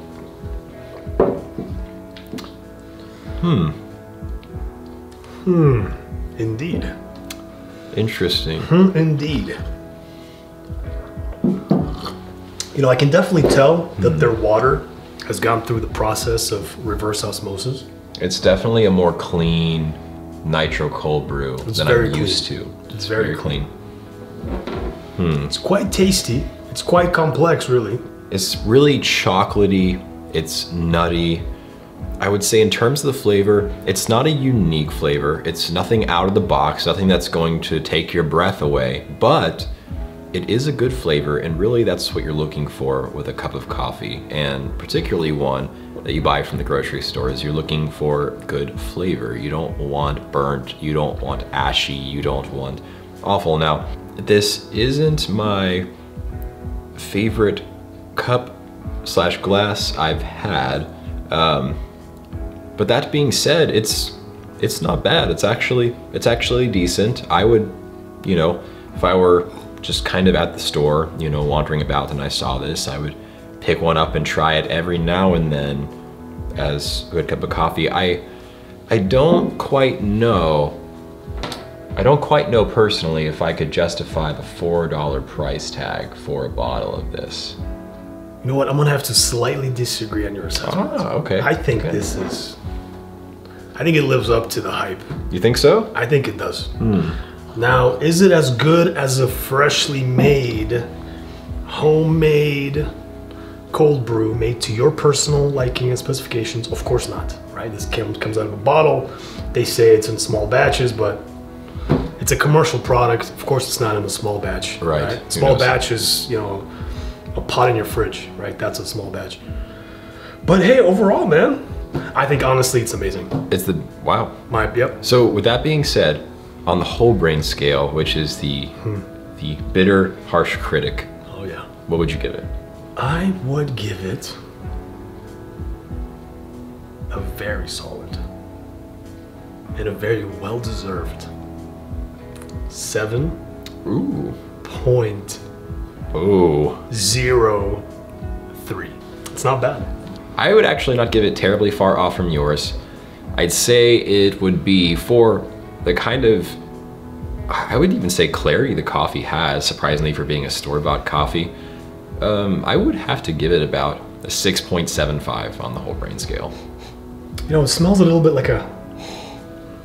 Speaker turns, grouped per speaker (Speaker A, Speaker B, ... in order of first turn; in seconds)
Speaker A: 3.4-3.8, 7.9-8.8, 18.2-23.7, 25.2-25.5, 28.3-31.4, 32.2-39.7, 40.3-55.9, 57.0-61.8, 62.8-75.9, 76.6-78.2, 78.9-80.8, 82.0-87.6, 90.6-92.0, 95.3-95.9, 96.8-97.2, 114.8-115.8, 123.5-124.3, 125.0-128.8, 129.4-131.1, 131.9-132.5, 143.8-144.4, 146.1-146.9, 150.4-152.8, 153.3-156.6, 157.5-161.5, 162.2-166.5
Speaker B: 5.4-6.9, 8.6-9.6, 12.8-17.9, 21.6-23.7, 25.5-28.0, 88.4-92.6, 93.8-95.1, 95.9-96.7, 97.5-100.9, 101.7-102.9, 103.7-111.2, 112.2-116.7, 117.3-119.4, 120.5-123.4, 124.5-125.0, 131.3-131.7, 133.0-134.4, 137.1-138.2, 139.8-141.3, 142.7-143.4, 144.6-145.4, 146.9-147.8, 148.6-149.9, 167.5-168.7